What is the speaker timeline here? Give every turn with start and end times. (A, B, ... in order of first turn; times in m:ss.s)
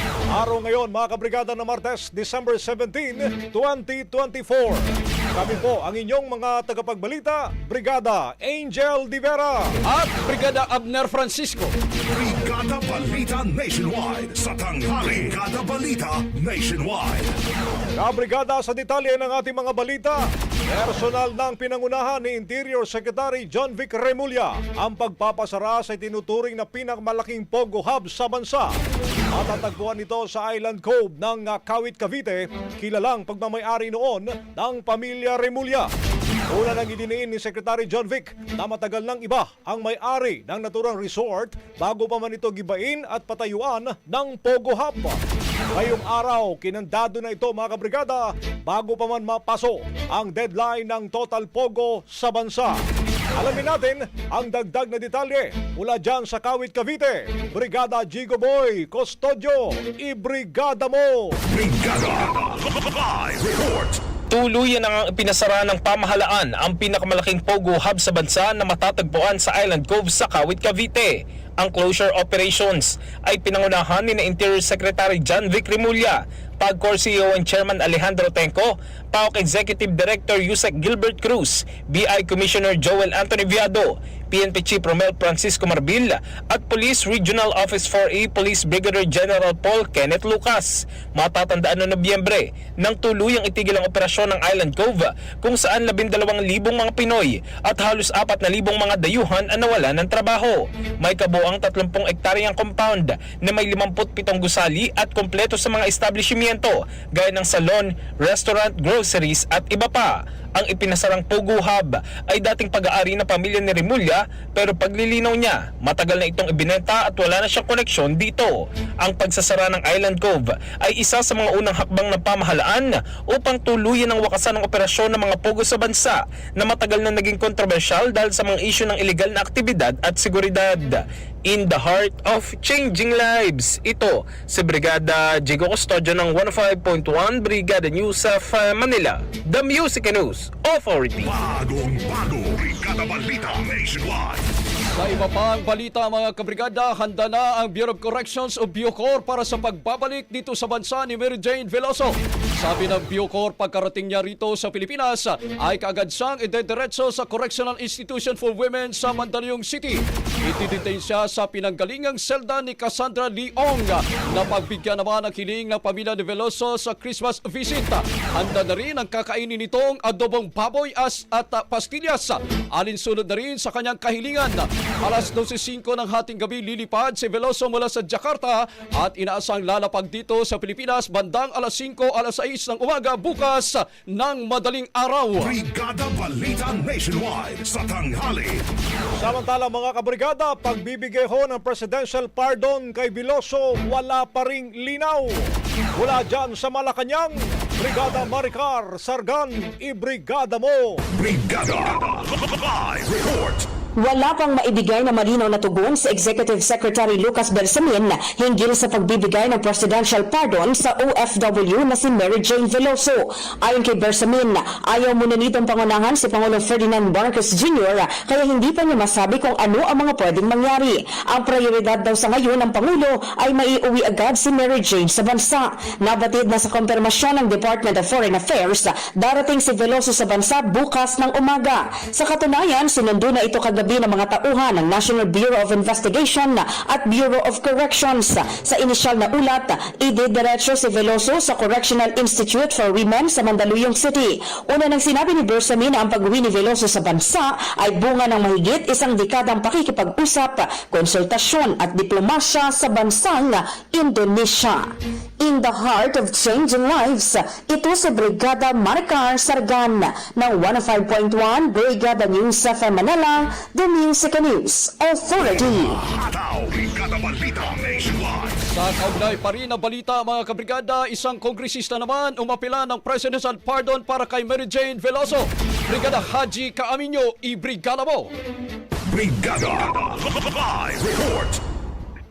0:00.3-0:09.7 A
0:09.8-0:11.7 B
0:12.1-0:17.3 C
0:18.0-0:28.7 A
0:29.3-0:35.9 A
0:36.5-0:45.2 A
0:45.7-0:52.7 A
0:53.4-1:01.4 A
1:01.5-1:04.0 C
1:04.3-2:21.3 D
2:21.2-2:24.4 C
2:24.9-3:05.5 B
3:05.4-3:08.6 C
3:09.2-3:15.4 A
3:16.0-3:21.0 A
3:21.1-3:23.6 C
3:24.0-4:26.0 E
4:25.4-4:28.6 C
4:28.7-4:38.3 B
4:39.1-4:41.6 C